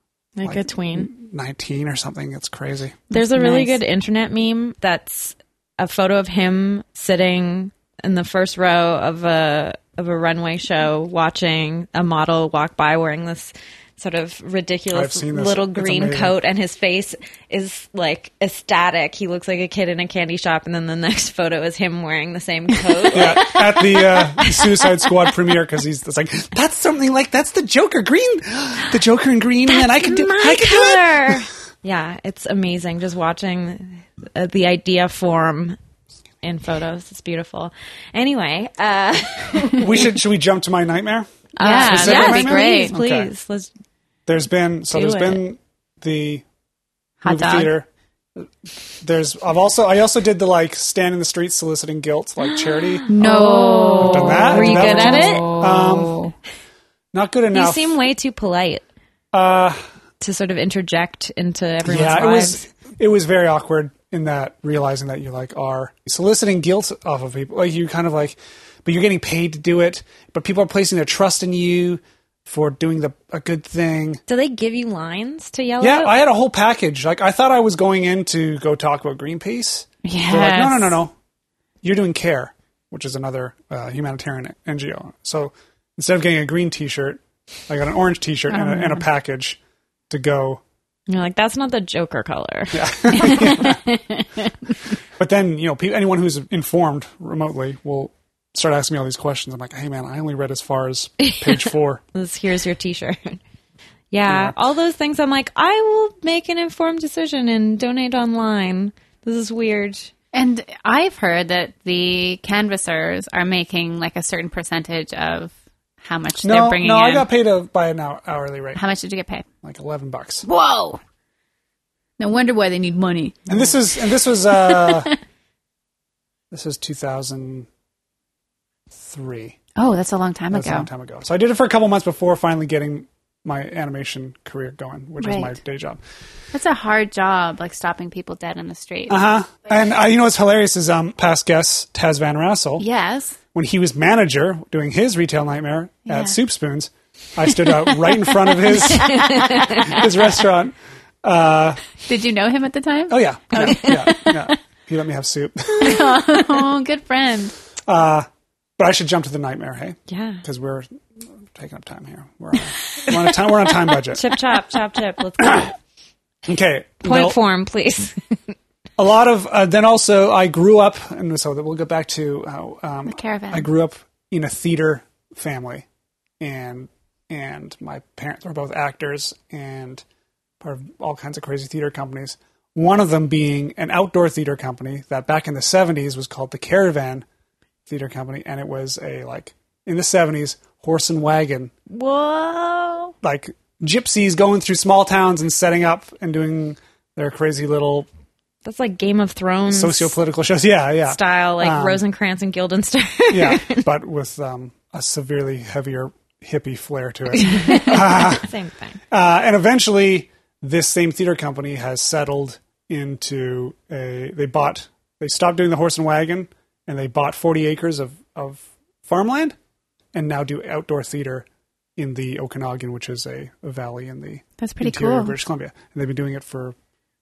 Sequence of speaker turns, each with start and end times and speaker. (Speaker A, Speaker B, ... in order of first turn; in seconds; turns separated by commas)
Speaker A: 0.4-1.1, Speaker B: 0.4-3.0, Speaker C: 3.1-3.8, Speaker A: 3.1-24.7, Speaker B: 14.9-16.3, Speaker B: 23.1-31.5, Speaker A: 29.7-35.8, Speaker A: 36.4-40.1, Speaker B: 39.8-43.3, Speaker C: 41.6-43.0, Speaker A: 41.6-43.7, Speaker B: 44.3-46.5, Speaker A: 44.9-45.4, Speaker C: 47.2-47.7, Speaker B: 47.2-48.5, Speaker B: 49.0-53.1, Speaker A: 52.4-55.5, Speaker C: 53.1-56.3, Speaker B: 54.0-56.2, Speaker B: 57.1-58.0, Speaker A: 57.5-58.9, Speaker B: 59.3-59.8, Speaker A: 60.2-62.6, Speaker B: 61.9-74.2, Speaker A: 74.3-76.1, Speaker B: 75.8-81.1, Speaker C: 80.0-81.0, Speaker B: 81.8-89.6, Speaker C: 88.5-89.0, Speaker B: 90.1-90.6, Speaker A: 91.1-93.8, Speaker B: 92.7-93.8, Speaker C: 93.1-94.4, Speaker B: 95.2-102.0, Speaker A: 101.2-101.6, Speaker A: 102.1-103.4, Speaker A: 104.1-110.1, Speaker B: 104.3-104.5, Speaker C: 110.3-117.3, Speaker B: 116.4-118.8, Speaker C: 118.8-119.5, Speaker B: 119.6-120.5, Speaker C: 120.4-121.0, Speaker C: 122.2-123.5, Speaker B: 123.5-125.1, Speaker C: 124.6-125.1, Speaker B: 126.5-127.7, Speaker B: 128.9-129.6, Speaker C: 129.8-130.9, Speaker B: 130.5-136.0, Speaker C: 135.2-135.6, Speaker C: 136.5-139.2, Speaker B: 139.1-142.8, Speaker C: 142.8-143.4, Speaker B: 143.5-151.8, Speaker C: 146.1-146.4, Speaker C: 148.7-150.0, Speaker A: 148.9-149.9, Speaker C: 152.1-154.5, Speaker B: 153.1-156.5, Speaker C: 155.7-157.5, Speaker B: 157.9-158.3, Speaker B: 158.8-161.0, Speaker A: 160.1-160.4, Speaker B: 161.5-164.3, Speaker A: 164.1-165.7, Speaker B: 165.4-165.7, Speaker B: 166.4-167.4, Speaker A: 167.0-168.2, Speaker B: 169.0-175.9, Speaker C: 173.1-173.7, Speaker B: 176.4-180.0, Speaker B: 180.6-187.3, Speaker B: 187.9-191.7, Speaker A: 191.9-193.1, Speaker B: 193.2-198.1, Speaker A: 198.7-200.1, Speaker B: 199.7-202.0, Speaker A: 201.1-203.9, Speaker B: 203.3-208.5, Speaker A: 207.4-209.0, Speaker B: 209.1-219.6, Speaker B: 220.1-221.5, Speaker B: 222.0-226.8, Speaker C: 224.6-225.3